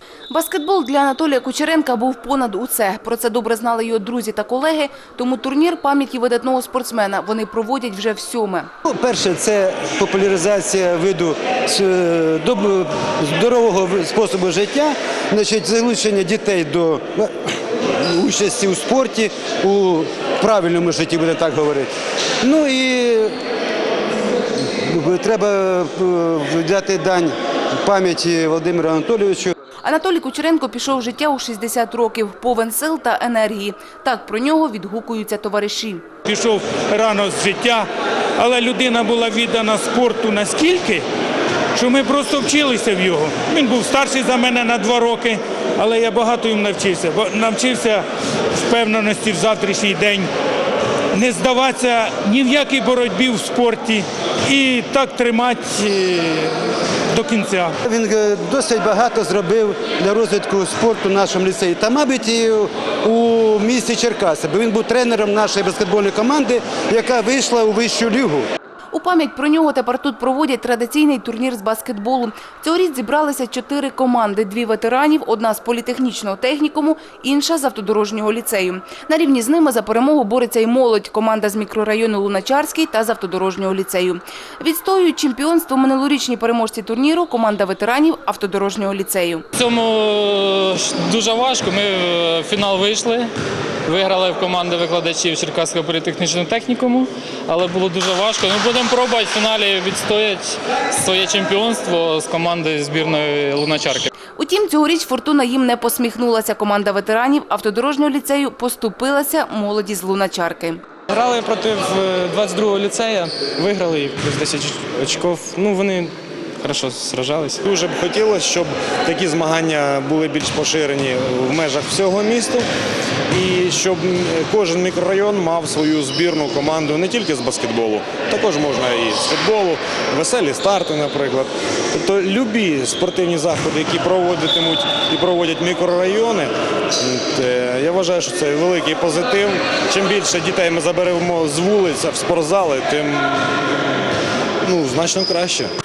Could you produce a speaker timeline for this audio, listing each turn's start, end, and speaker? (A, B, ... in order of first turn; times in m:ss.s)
0:00.3-0:08.7 A
0:08.8-0:17.3 B
0:17.9-0:21.9 B
0:22.4-0:23.3 B
0:24.8-0:29.5 B
0:29.8-0:36.0 A
0:36.2-0:37.8 C
0:38.4-0:41.0 C
0:41.7-0:48.0 C
0:48.5-0:50.3 C
0:51.1-0:56.5 C
0:57.1-0:57.7 C
0:57.8-1:08.4 B
1:08.9-1:29.4 A
1:29.5-1:33.3 D
1:33.9-1:44.1 D
1:44.4-1:50.8 A
1:51.1-1:56.1 E
1:56.6-1:57.6 E
1:57.6-2:02.7 F
2:03.3-2:23.8 F
2:24.6-2:25.7 F